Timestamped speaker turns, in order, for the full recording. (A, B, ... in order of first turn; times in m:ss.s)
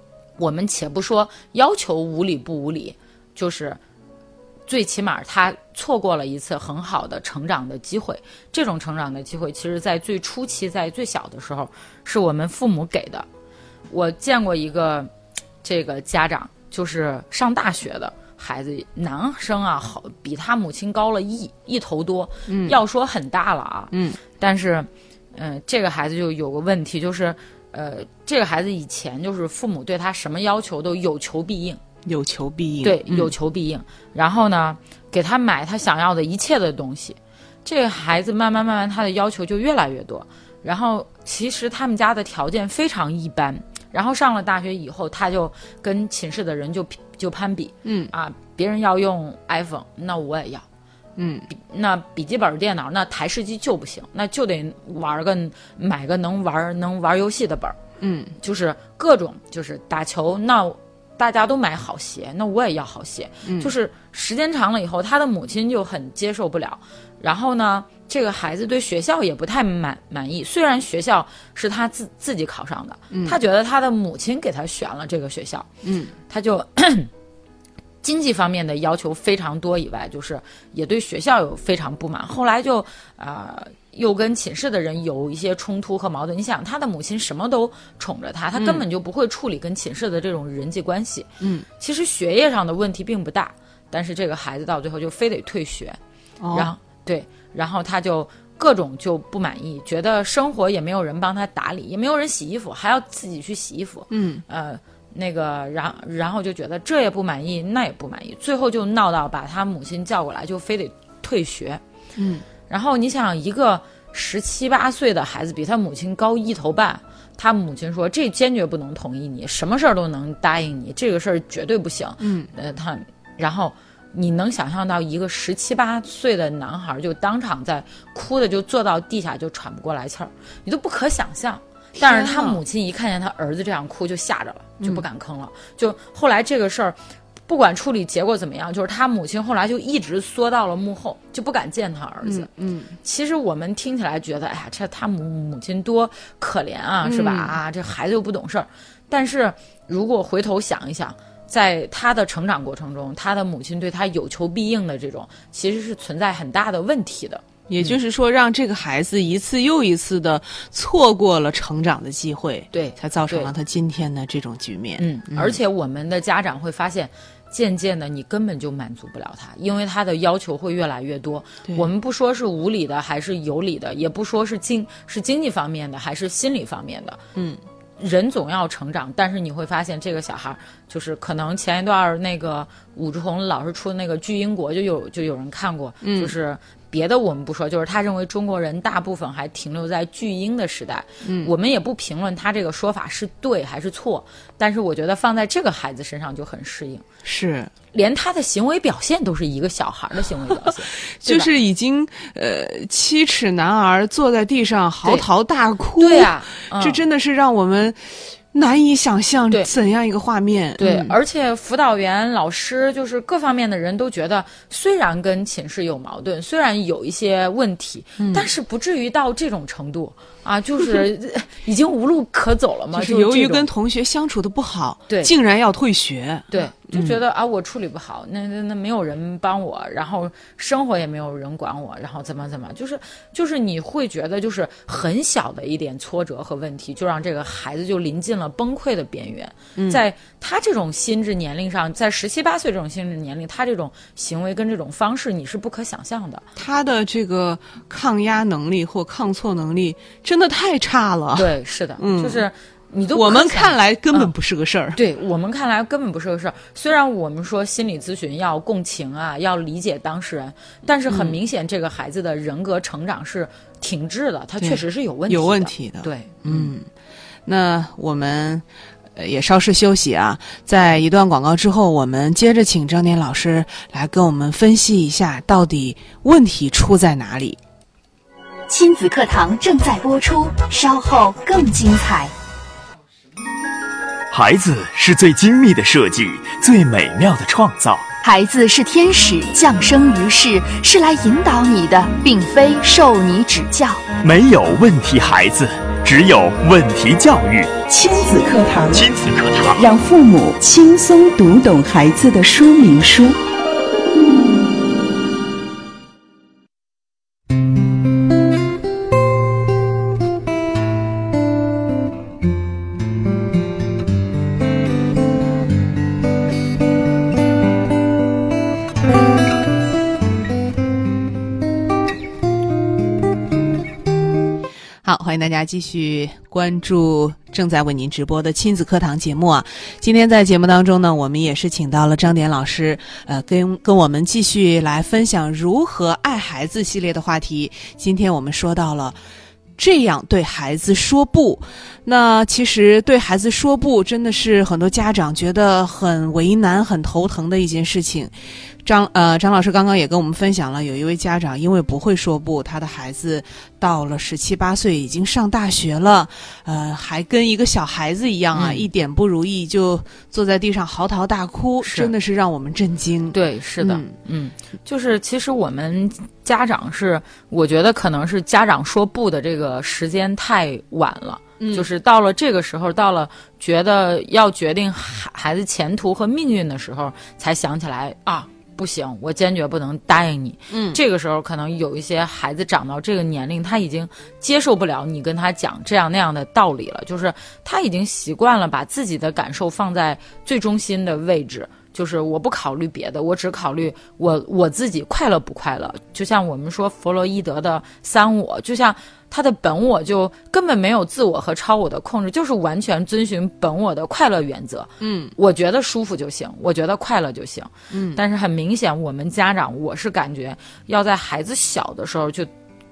0:00.4-0:03.8 A
0:04.7-0:13.2 A
0:13.9-0:15.1 A
0:15.6-0:31.8 A
0:22.5-0:22.8 B
0:23.9-0:24.2 B
0:32.0-0:33.3 B
0:32.8-0:50.6 A
0:47.8-0:48.1 B
0:51.2-0:51.5 B
0:51.5-0:57.8 A
0:58.0-0:58.3 B
0:58.4-1:15.7 A
1:03.4-1:03.7 B
1:13.1-1:13.4 B
1:15.8-1:16.1 B
1:16.3-1:17.1 A
1:18.0-1:36.0 A
1:28.5-1:28.8 B
1:31.4-1:31.6 B
1:36.4-1:36.7 B
1:36.5-1:51.8 A
1:44.1-1:44.4 B
1:52.2-1:52.4 B
1:52.7-2:17.0 A
2:02.2-2:02.5 B
2:12.0-2:12.6 B
2:17.5-2:22.5 A
2:22.2-2:23.0 B
2:23.0-2:38.0 A
2:27.0-2:27.5 B
2:37.7-2:45.6 B
2:42.7-2:43.5 A
2:45.0-2:57.2 A
2:57.3-2:57.6 B
2:58.0-3:17.0 A
3:06.0-3:06.3 B
3:11.2-3:11.5 B
3:17.2-3:17.7 B
3:17.9-3:21.5 A
3:20.6-3:31.2 B
3:26.0-3:27.0 A
3:30.8-3:43.7 A
3:38.2-3:38.5 B
3:42.9-3:47.2 B
3:46.5-4:06.4 A
3:59.8-4:00.0 B
4:06.6-4:12.4 B
4:11.3-4:14.3 A
4:13.1-4:15.0 B
4:14.9-4:26.7 A
4:21.1-4:21.4 B
4:24.6-4:26.8 B
4:27.4-4:37.6 B
4:38.7-4:42.3 C
4:44.3-4:48.0 D
4:48.2-4:54.0 C
4:54.2-4:57.8 D
4:57.9-4:59.0 E
4:58.9-4:59.8 D
4:59.8-5:03.4 E
5:25.0-5:39.2 B
5:39.8-5:48.3 B
5:48.8-6:04.1 B
5:58.5-5:58.9 A
6:01.8-6:02.1 A
6:03.3-6:52.5 A
6:11.6-6:11.9 B
6:20.7-6:21.0 B
6:45.0-6:45.3 B
6:47.9-6:48.2 B